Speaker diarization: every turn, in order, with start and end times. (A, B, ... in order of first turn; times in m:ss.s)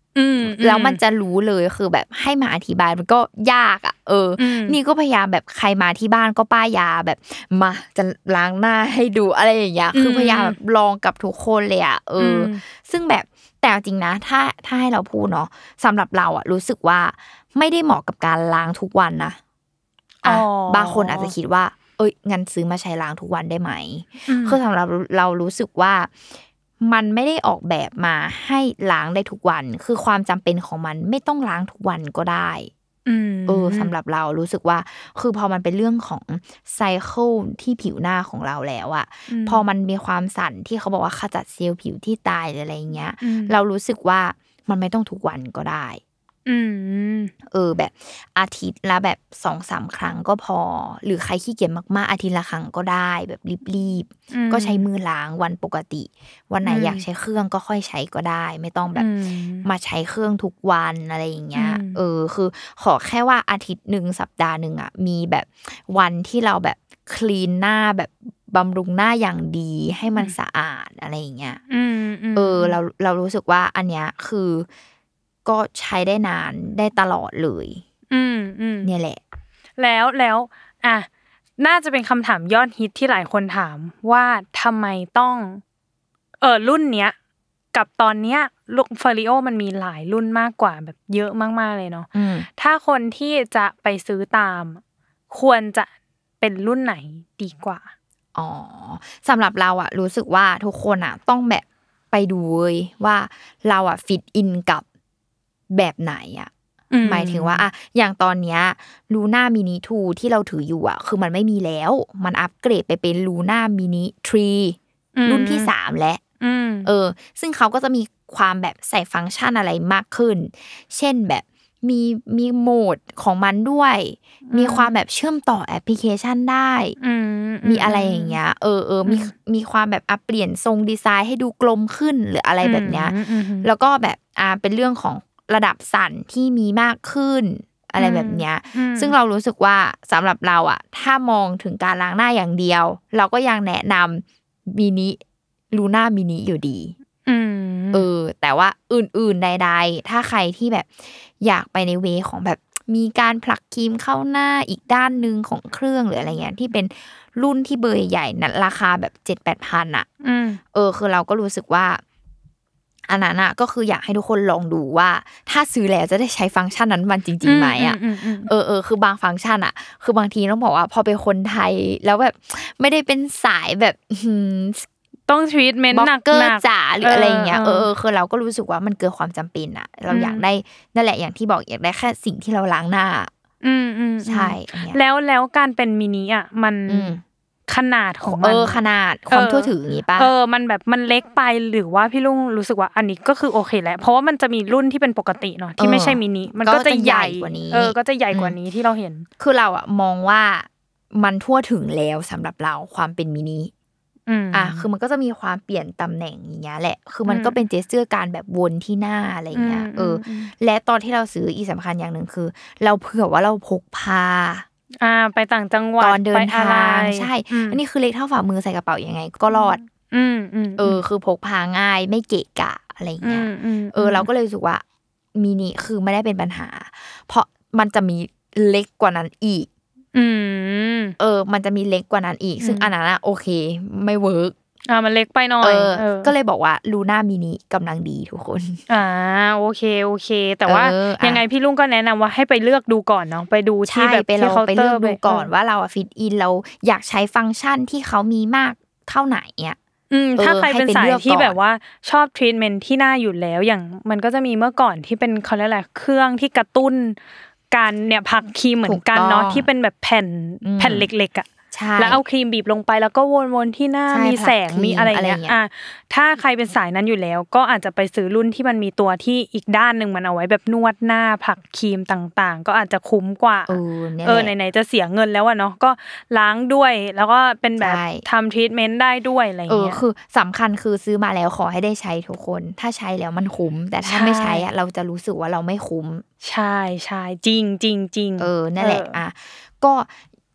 0:00.1-0:01.0 A
0:00.4-0:19.4 B
0:04.4-0:04.8 A
0:09.9-0:10.6 A
0:12.2-0:12.6 A
0:20.2-0:26.1 B
0:20.2-0:21.3 A
0:24.3-0:24.6 A
0:26.8-0:32.7 B
0:33.0-0:33.9 A
0:33.5-0:46.0 B
0:39.3-0:39.6 A
0:43.2-0:43.5 A
0:46.5-0:47.3 A
0:47.5-0:59.1 B
0:54.3-0:54.8 A
0:56.6-0:57.0 A
0:58.9-0:59.6 A
0:59.6-1:11.6 B
1:01.5-1:02.0 A
1:11.7-1:12.8 A
1:12.3-1:14.7 B
1:15.4-1:17.8 B
1:18.1-1:18.9 A
1:18.8-1:19.2 B
1:19.8-1:25.6 A
1:26.4-1:27.1 A
1:27.7-1:35.9 A
1:32.1-1:32.5 B
1:36.4-1:37.9 A
1:38.3-1:44.8 B
1:45.7-1:46.5 B
1:46.9-1:47.6 A
1:47.0-1:56.2 B
1:55.2-1:55.7 A
1:56.4-1:56.9 A
1:56.8-2:07.0 B
2:04.5-2:05.0 A
2:07.0-2:08.4 A
2:07.6-2:25.2 B
2:09.0-2:09.3 A
2:12.6-2:13.7 A
2:18.0-2:19.1 A
2:25.7-2:27.0 B
2:27.2-2:28.1 A
2:27.9-2:40.1 B
2:40.2-2:40.6 A
2:40.7-2:42.0 B
2:43.1-2:54.9 B
2:47.4-2:48.5 A
2:55.3-2:57.9 A
2:55.9-3:03.3 B
3:00.1-3:00.4 A
3:03.6-3:07.1 A
3:04.2-3:05.0 B
3:06.9-3:07.2 B
3:07.7-3:08.8 A
3:08.2-3:10.3 B
3:09.3-3:19.3 A
3:15.8-3:18.6 B
3:19.4-3:23.7 B
3:24.3-3:24.8 A
3:24.5-3:34.6 B
3:27.2-3:27.6 A
3:29.5-3:30.5 A
3:35.0-3:37.8 A
3:36.0-3:39.8 B
3:39.5-3:41.0 A
3:40.8-3:44.8 B
3:43.2-3:44.3 A
3:45.3-3:49.7 B
3:50.1-3:51.2 A
3:51.2-3:54.5 B
3:52.6-3:52.9 A
3:54.9-3:56.3 A
3:55.6-3:58.8 B
3:58.9-4:05.5 A
4:00.6-4:01.4 B
4:03.9-4:09.8 B
4:10.1-4:17.2 A
4:10.4-4:11.6 B
4:17.7-4:40.0 A
4:18.8-4:19.7 B
4:20.6-4:21.1 B
4:21.7-4:22.2 B
4:24.1-4:25.6 B
4:33.7-4:34.5 B
4:37.8-4:38.2 B
4:39.7-4:46.2 B
4:44.0-4:44.6 A
4:46.4-4:49.2 A
4:48.4-4:50.1 B